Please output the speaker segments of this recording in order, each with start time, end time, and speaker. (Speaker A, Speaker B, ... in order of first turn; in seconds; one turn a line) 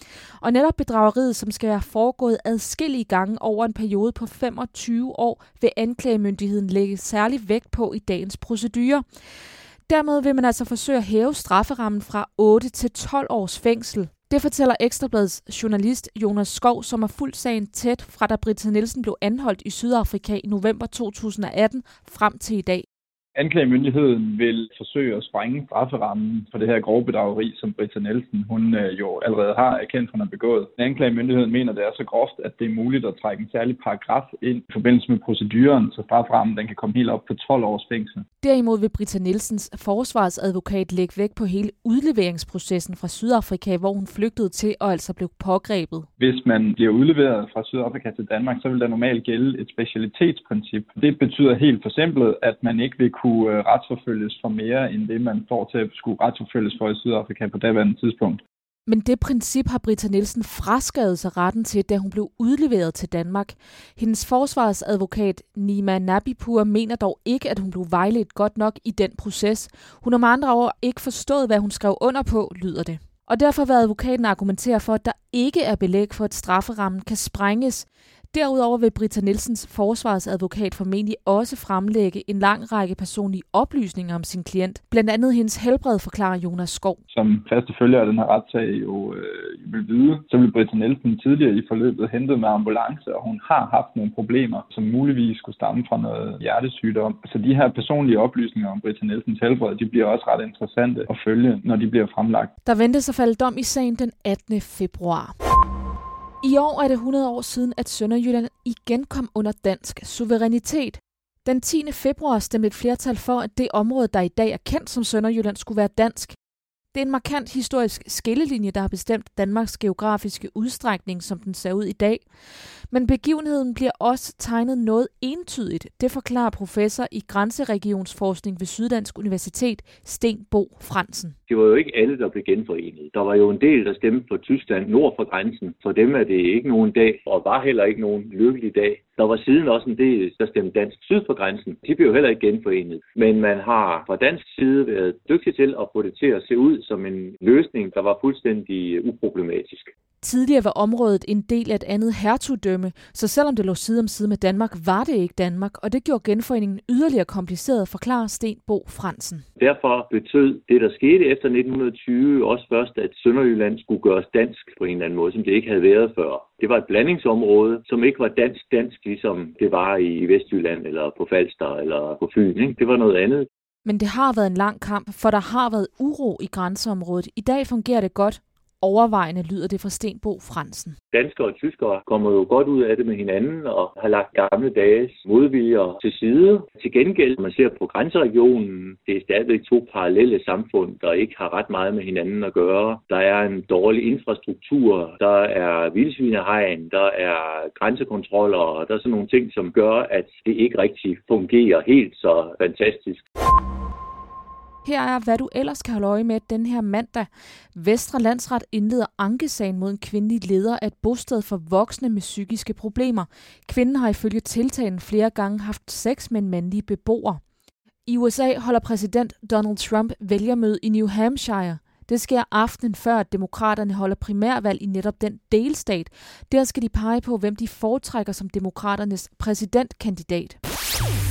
Speaker A: 0.4-9.0
Speaker A: 9.9-22.9
Speaker B: 23.3-38.2
Speaker A: 38.4-46.1
Speaker B: 46.2-58.4
Speaker A: 58.9-87.0
Speaker B: 87.1-102.5
Speaker A: 102.6-105.3
Speaker A: 106.4-116.3
Speaker A: 116.9-122.2
Speaker A: 122.9-131.3
Speaker C: 131.5-149.9
Speaker A: 150.2-159.4
Speaker C: 159.6-173.5
Speaker A: 173.8-180.9
Speaker C: 181.1-203.2
Speaker A: 204.8-217.4
Speaker A: 218.1-230.6